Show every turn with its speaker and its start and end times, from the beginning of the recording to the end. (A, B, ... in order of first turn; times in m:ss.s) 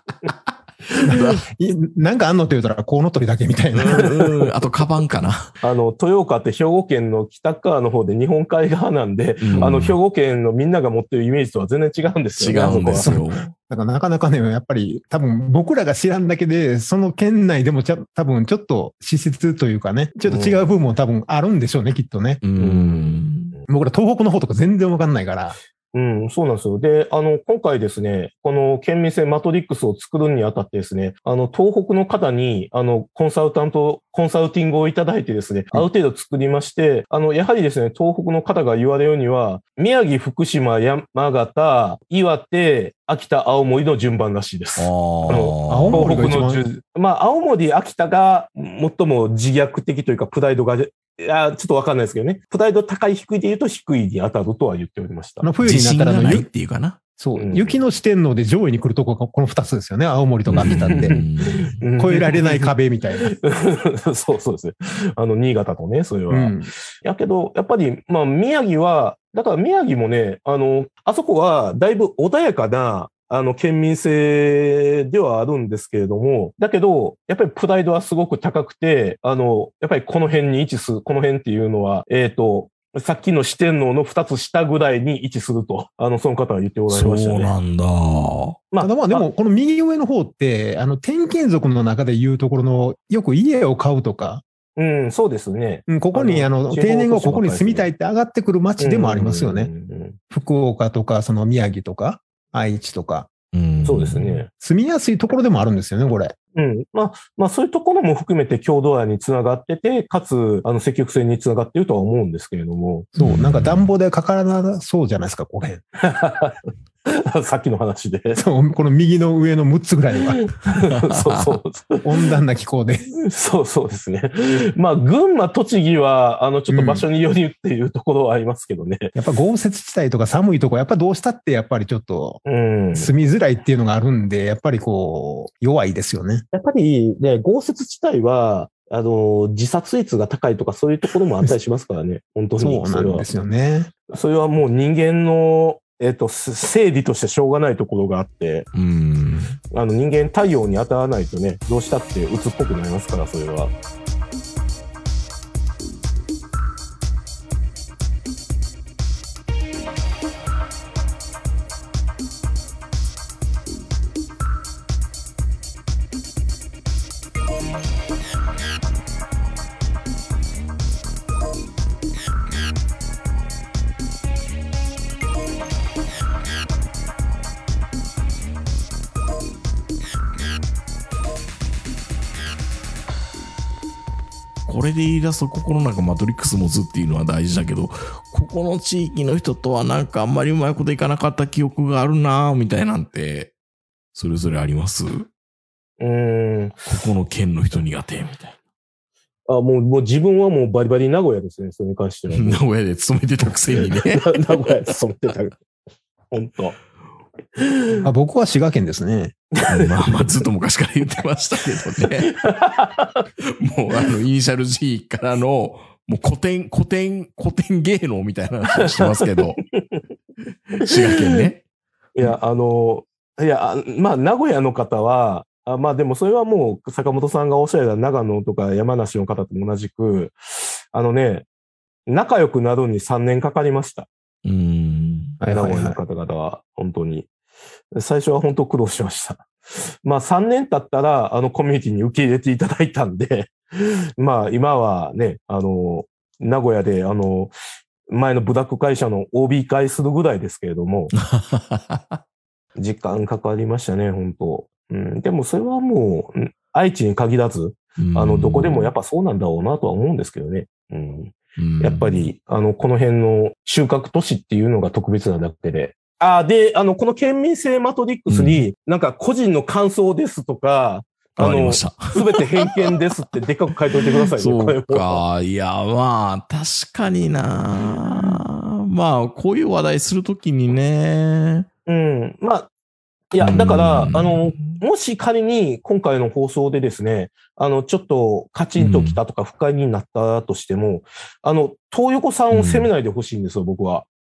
0:01.0-0:04.2 A
0:01.1-0:01.4 B
0:03.7-0:05.5 B
0:05.6-0:13.2 C
0:09.4-0:10.0 B
0:12.4-0:13.5 B
0:12.9-0:22.4 A
0:20.2-0:20.7 C
0:22.4-0:23.5 B
0:22.6-0:23.6 C
0:23.7-0:25.6 A
0:25.9-0:55.5 C
0:44.8-0:46.1 B
0:45.7-0:46.7 A
0:55.4-0:56.5 A
0:55.6-0:57.0 B
0:57.2-1:01.2 A
0:57.4-0:57.8 C
1:00.5-1:01.8 B
1:00.6-1:02.7 C
1:02.0-1:03.3 A
1:03.3-1:27.6 C
1:06.3-1:06.7 A
1:26.9-1:28.6 B
1:28.7-1:29.2 C
1:28.8-1:34.4 A
1:34.8-1:37.9 C
1:35.9-1:39.7 A
1:38.8-1:40.2 C
1:40.3-1:43.3 A
1:43.5-1:44.4 B
1:43.8-1:44.5 C
1:44.6-1:46.3 A
1:46.5-1:53.1 C
1:53.1-1:55.8 A
1:53.2-1:53.9 B
1:56.0-1:58.4 C
1:58.3-2:00.4 A
2:00.4-2:02.0 C
2:00.9-2:01.6 B
2:02.0-2:03.1 A
2:03.2-2:09.1 C
2:06.7-2:07.0 A
2:09.1-2:12.4 A
2:12.4-2:13.1 C
2:12.9-2:16.4 A
2:16.5-2:23.2 C
2:22.6-2:23.9 A
2:24.1-2:28.7 C
2:28.7-2:29.6 B
2:29.7-2:33.7 C
3:04.6-3:13.5 B
3:14.1-3:15.3 B
3:16.0-3:16.9 C
3:16.9-3:18.6 B
3:19.5-3:22.6 C
3:22.3-3:24.4 B
3:23.8-3:25.6 C
3:26.3-3:26.8 C
3:27.6-3:28.0 C
3:28.0-3:29.3 A
3:29.6-3:30.2 C
3:29.7-3:32.3 B
3:32.2-3:33.2 C
3:33.6-3:39.6 B
3:40.8-3:41.6 B
3:40.9-3:41.4 C
3:42.2-3:51.4 C
3:52.1-3:54.1 C
3:54.4-3:55.4 B
3:55.4-3:56.0 A
3:55.5-3:57.3 C
3:57.9-3:59.5 C
4:00.0-4:03.5 C
4:04.2-4:07.5 C
4:08.1-4:11.1 C
4:11.2-4:12.2 B
4:12.8-4:35.2 C
4:18.0-4:18.9 B
4:21.6-4:22.3 B
4:28.3-4:28.6 B
4:31.4-4:32.6 B
4:34.3-4:41.7 B
4:41.9-4:42.7 C
4:43.3-4:54.1 C
4:43.4-4:44.8 B
4:48.8-4:49.2 B
4:52.5-4:52.9 B